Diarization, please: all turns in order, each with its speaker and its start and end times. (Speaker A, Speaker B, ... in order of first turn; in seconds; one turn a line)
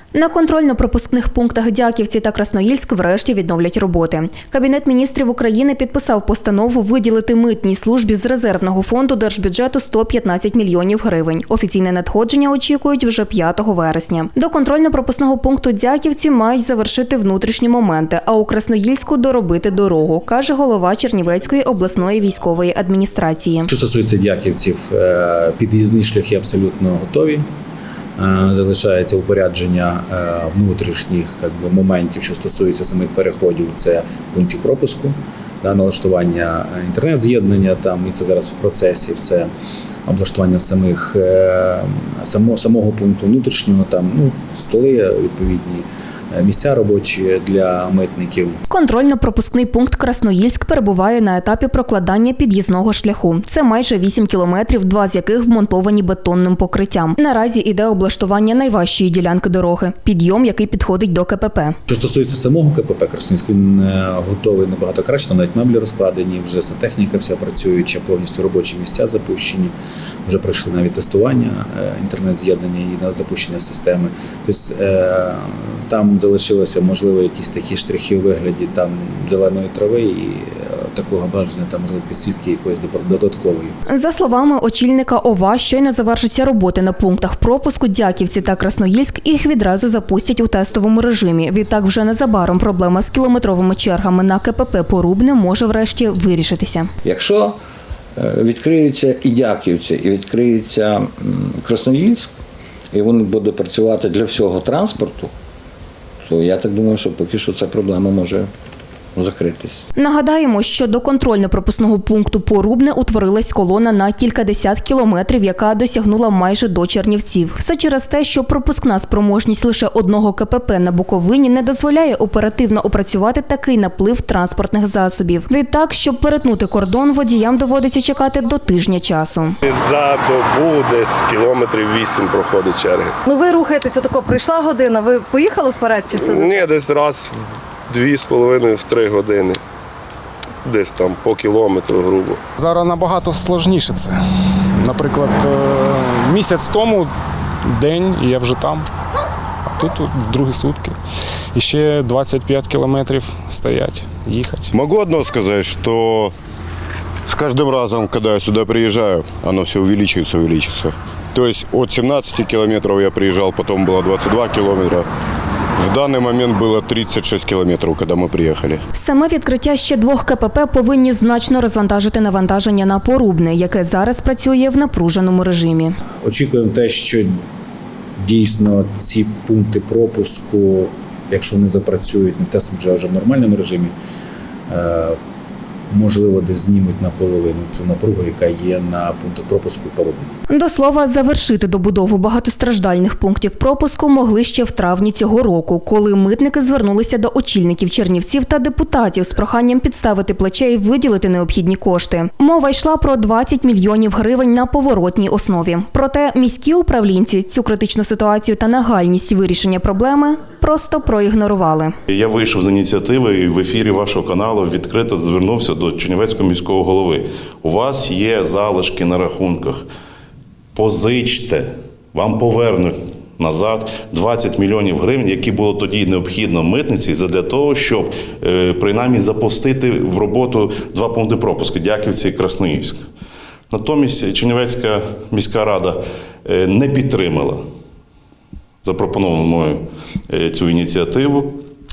Speaker A: 0.1-23.7
Speaker B: 23.7-27.4
Speaker B: 28.2-39.5
Speaker B: 40.0-48.6
Speaker A: 48.7-61.8
Speaker B: 61.9-69.7
Speaker B: 70.2-83.7
Speaker A: 83.9-96.9
Speaker C: 97.1-97.5
Speaker C: 98.2-102.3
Speaker C: 102.9-105.3
Speaker C: 106.3-108.5
Speaker C: 109.2-109.8
Speaker A: 109.9-129.5
Speaker D: 129.6-133.2
Speaker E: 133.2-136.6
Speaker D: 136.2-139.6
Speaker D: 140.6-142.4
Speaker F: 142.6-144.1
Speaker F: 144.8-147.1
Speaker F: 147.7-148.8
Speaker F: 149.7-150.9
Speaker F: 151.5-154.7
Speaker G: 154.7-156.3
Speaker G: 157.3-165.1
Speaker G: 165.8-168.8
Speaker A: 168.9-175.9
Speaker B: 176.2-177.3
Speaker B: 178.2-183.9
Speaker B: 184.7-185.2
Speaker B: 185.9-190.3
Speaker A: 190.5-211.9
Speaker H: 212.1-219.8
Speaker H: 220.7-233.0
Speaker H: 233.7-237.6
Speaker H: 238.8-241.6